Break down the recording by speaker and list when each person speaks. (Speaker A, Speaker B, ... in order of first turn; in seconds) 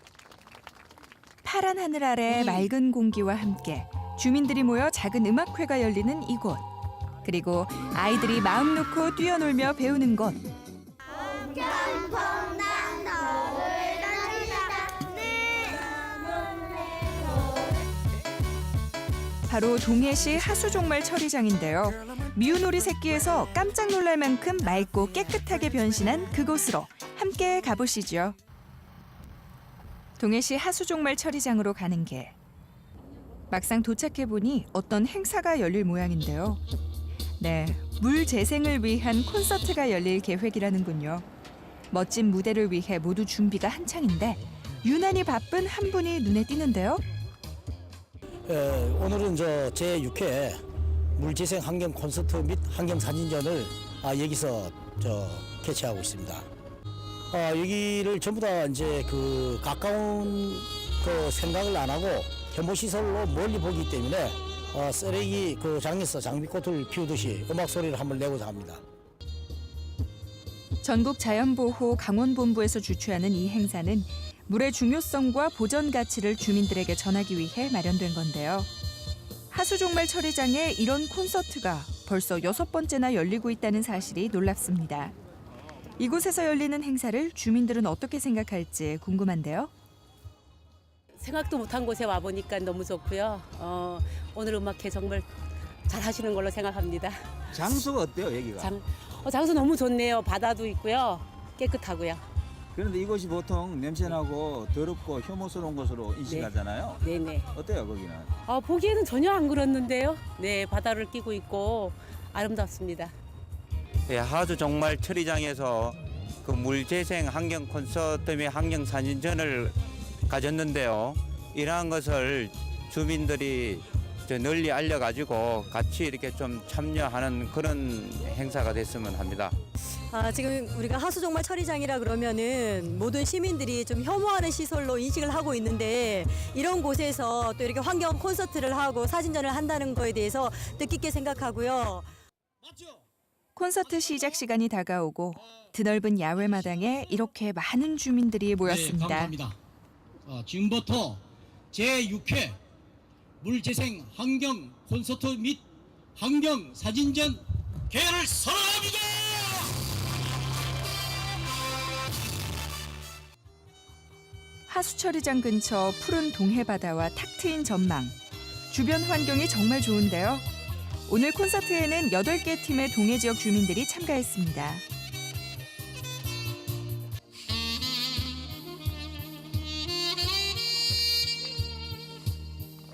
Speaker A: 1.4-6.7, 7.2-10.4, 19.5-28.4, 30.2-32.4, 33.5-36.6, 37.4-41.3, 41.9-47.0, 70.8-78.7, 79.5-85.1, 86.0-89.7, 143.6-149.3, 164.7-168.2, 168.7-170.5, 171.1-174.8
Speaker B: 48.5-50.6, 51.2-56.5, 57.3-68.8
Speaker C: 91.2-95.3, 95.9-97.2, 98.6-102.2, 106.3-107.5, 108.5-113.1
Speaker D: 97.5-98.7, 102.7-107.0, 107.5-108.3
Speaker E: 114.1-119.8, 120.3-129.6
Speaker F: 130.1-142.1
Speaker G: 148.7-149.6, 150.3-152.6, 153.4-155.6, 156.2-159.7